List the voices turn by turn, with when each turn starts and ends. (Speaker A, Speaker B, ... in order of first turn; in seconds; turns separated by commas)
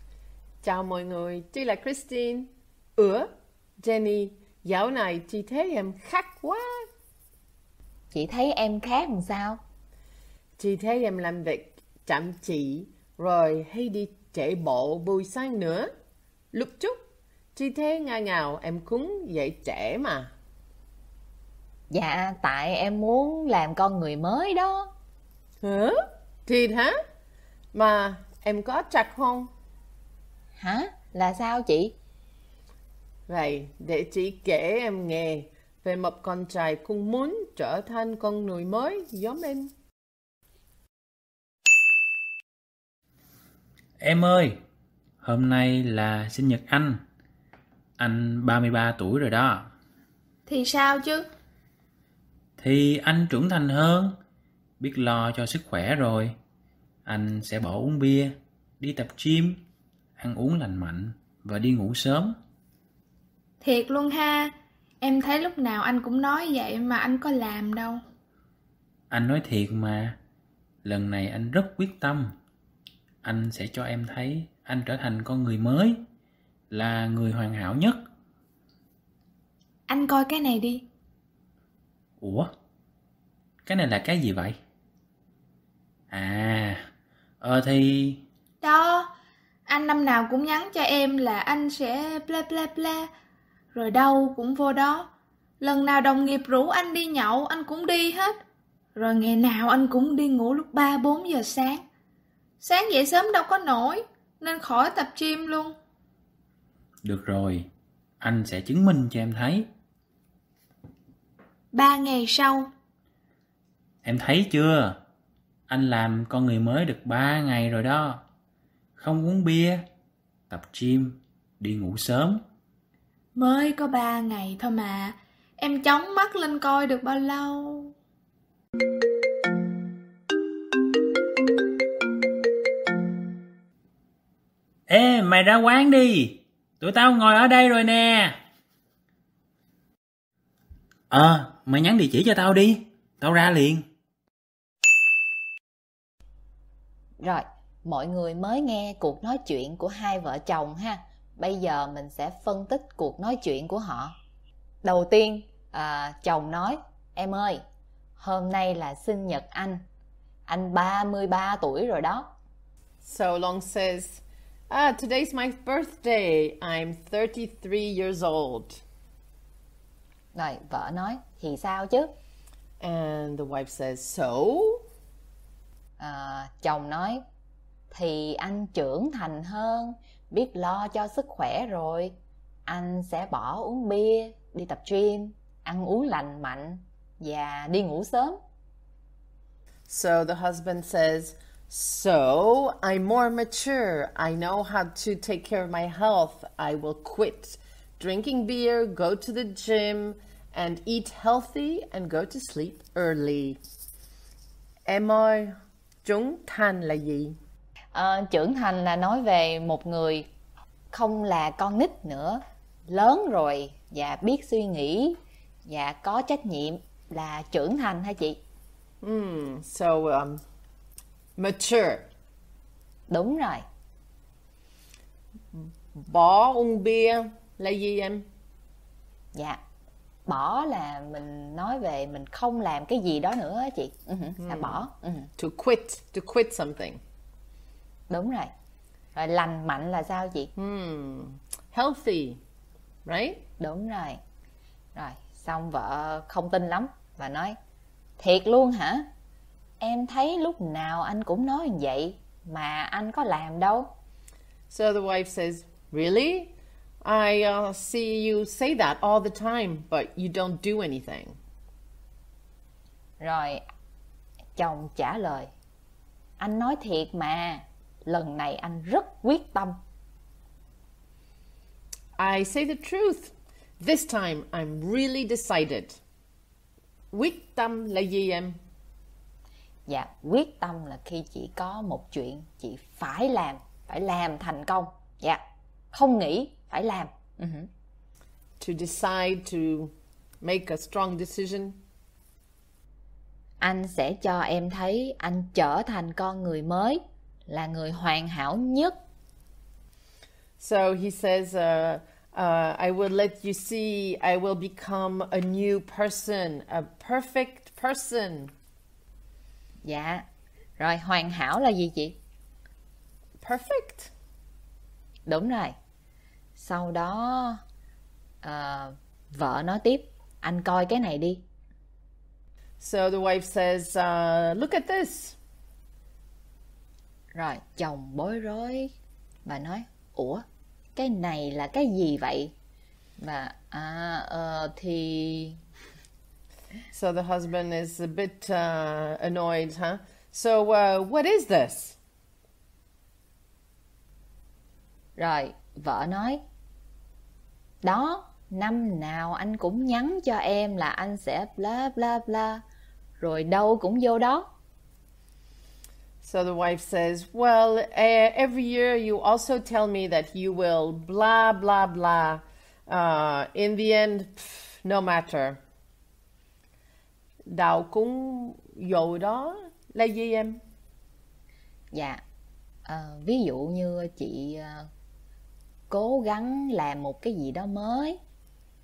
Speaker A: 0.6-6.9, Speaker B: 8.1-9.6, Speaker A: 10.6-15.9, Speaker A: 16.5-17.0, Speaker A: 17.6-20.3, Speaker B: 21.9-24.9, Speaker A: 25.6-27.0, Speaker A: 27.7-29.5, Speaker B: 30.6-31.9, Speaker A: 33.3-39.7, Speaker C: 44.0-44.5, Speaker C: 45.2-47.0, Speaker C: 48.0-49.7, Speaker D: 50.5-51.3, Speaker C: 52.6-54.1, Speaker C: 54.8-56.4, Speaker C: 57.1-59.6, Speaker C: 60.2-62.4, Speaker D: 63.6-68.0, Speaker C: 69.1-70.2, Speaker C: 70.8-72.3, Speaker C: 73.2-76.0, Speaker C: 76.7-78.0, Speaker D: 79.9-80.8, Speaker C: 82.2-82.5, Speaker C: 83.7-84.6, Speaker C: 86.1-86.8, Speaker C: 87.4-88.2, Speaker D: 88.6-89.1, Speaker D: 89.7-93.1, Speaker D: 93.7-95.1, Speaker D: 95.6-98.4, Speaker D: 99.0-101.8, Speaker D: 102.6-105.8, Speaker C: 107.0-107.7, Speaker C: 108.2-109.7, Speaker D: 111.7-112.7, Speaker C: 114.0-115.0, Speaker C: 115.7-118.2, Speaker C: 119.0-119.8, Speaker C: 120.5-122.4, Speaker D: 123.3-127.9, Speaker C: 134.9-138.3, Speaker C: 141.1-143.8, Speaker B: 147.2-154.1, Speaker B: 154.8-157.6, Speaker B: 158.2-159.8, Speaker B: 160.5-162.3, Speaker A: 163.0-168.8, Speaker B: 170.3-172.1, Speaker A: 172.8-174.8, Speaker B: 176.0-177.2, Speaker B: 177.9-182.1, Speaker B: 182.7-188.4, Speaker A: 189.9-203.6, Speaker A: 204.8-207.4, Speaker B: 207.9-210.2, Speaker B: 210.9-218.4, Speaker A: 219.0-220.4, Speaker A: 221.4-222.1, Speaker B: 223.1-223.6, Speaker A: 225.6-228.2, Speaker B: 229.3-229.6, Speaker B: 230.3-235.3, Speaker A: 234.4-234.8, Speaker A: 235.4-237.0, Speaker B: 238.1-238.5, Speaker B: 239.2-240.5, Speaker A: 240.6-242.4, Speaker A: 243.1-243.4, Speaker B: 243.6-244.2, Speaker B: 244.9-247.6, Speaker B: 248.2-249.1, Speaker B: 249.8-253.9, Speaker A: 254.7-261.4, Speaker B: 263.2-263.6, Speaker B: 264.6-265.5, Speaker B: 266.4-269.8, Speaker A: 272.2-276.0, Speaker A: 277.1-278.6, Speaker B: 279.9-285.4, Speaker B: 285.9-287.7, Speaker A: 288.6-291.8, Speaker B: 293.6-298.9, Speaker A: 300.6-308.5, Speaker B: 309.8-310.2, Speaker B: 310.8-312.2, Speaker A: 313.4-314.1, Speaker B: 315.3-315.8, Speaker B: 316.6-317.6, Speaker B: 318.4-321.4, Speaker A: 322.8-325.4, Speaker B: 327.3-328.9, Speaker B: 329.4-332.5, Speaker B: 333.2-335.6, Speaker A: 336.9-342.0, Speaker B: 345.2-346.4, Speaker B: 347.8-352.6, Speaker B: 353.2-354.5, Speaker A: 356.2-365.6, Speaker A: 367.4-370.6, Speaker B: 371.9-372.2, Speaker B: 372.9-374.9, Speaker B: 375.9-378.2